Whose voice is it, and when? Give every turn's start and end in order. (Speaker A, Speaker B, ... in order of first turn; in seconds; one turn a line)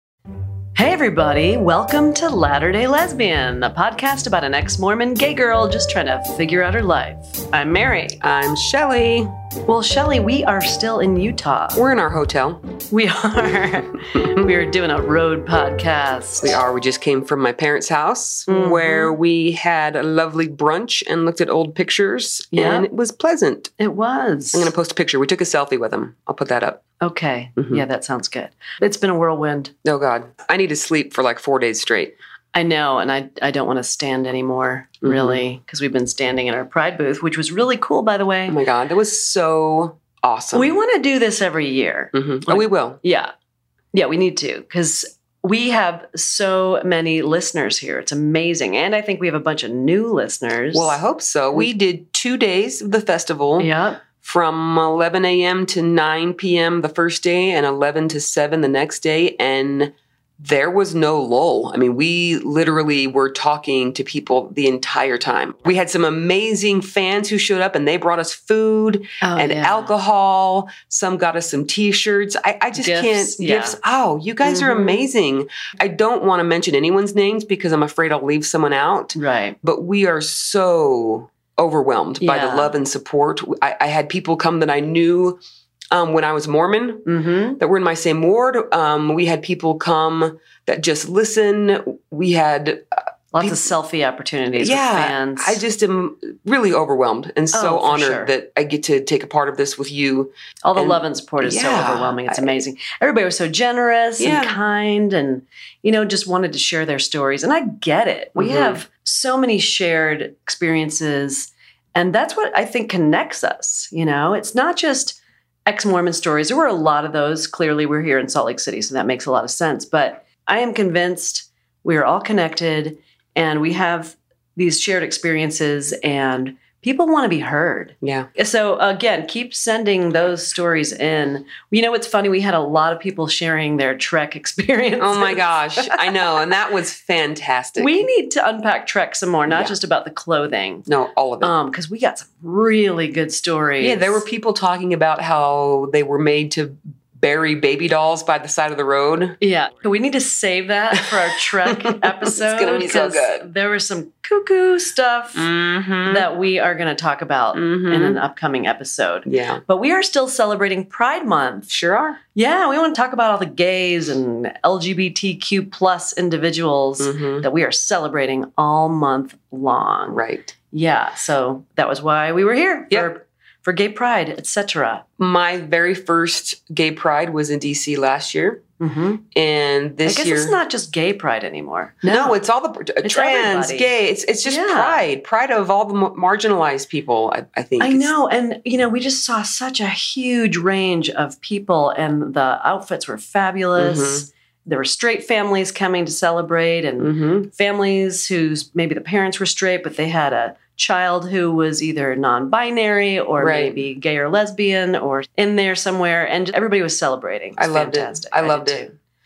Speaker A: 0.8-8.2
Speaker B: 8.2-9.3
Speaker A: 9.7-11.8
Speaker B: 11.8-12.6
Speaker A: 12.9-16.6
Speaker B: 16.4-23.7
Speaker A: 18.5-19.1
Speaker A: 22.5-22.9
Speaker A: 23.8-24.7
Speaker B: 24.5-26.8
Speaker A: 27.0-29.7
Speaker B: 27.6-27.8
Speaker B: 29.8-32.2
Speaker A: 32.5-38.6
Speaker B: 35.0-35.4
Speaker B: 38.5-40.7
Speaker A: 40.5-43.3
Speaker B: 42.1-43.0
Speaker A: 43.9-51.0
Speaker B: 50.7-53.7
Speaker A: 53.6-54.0
Speaker B: 54.2-85.4
Speaker A: 69.2-69.9
Speaker A: 72.8-73.8
Speaker A: 74.4-75.0
Speaker A: 79.2-79.6
Speaker A: 82.2-82.8
Speaker B: 85.9-87.0
Speaker A: 87.1-87.6
Speaker B: 87.6-93.7
Speaker A: 93.3-95.6
Speaker B: 94.6-102.5
Speaker A: 97.5-98.3
Speaker A: 100.6-136.3
Speaker B: 104.2-104.6
Speaker B: 108.4-108.8
Speaker B: 128.0-128.3
Speaker B: 135.0-138.0
Speaker A: 137.8-140.9
Speaker B: 139.5-139.8
Speaker B: 140.9-141.5
Speaker A: 141.4-144.2
Speaker B: 143.8-149.4
Speaker A: 149.4-155.5
Speaker B: 151.7-153.5
Speaker B: 155.3-156.3
Speaker A: 156.1-161.7
Speaker B: 157.5-158.2
Speaker B: 159.3-159.6
Speaker B: 161.7-162.2
Speaker A: 162.3-175.1
Speaker B: 167.0-167.5
Speaker B: 170.1-170.5
Speaker B: 175.2-178.6
Speaker A: 178.8-179.2
Speaker B: 179.3-180.6
Speaker A: 180.0-182.4
Speaker B: 182.0-188.1
Speaker A: 183.0-183.9
Speaker A: 184.4-185.0
Speaker A: 187.8-208.9
Speaker B: 193.8-194.3
Speaker B: 197.0-197.5
Speaker B: 203.4-203.8
Speaker B: 207.6-208.9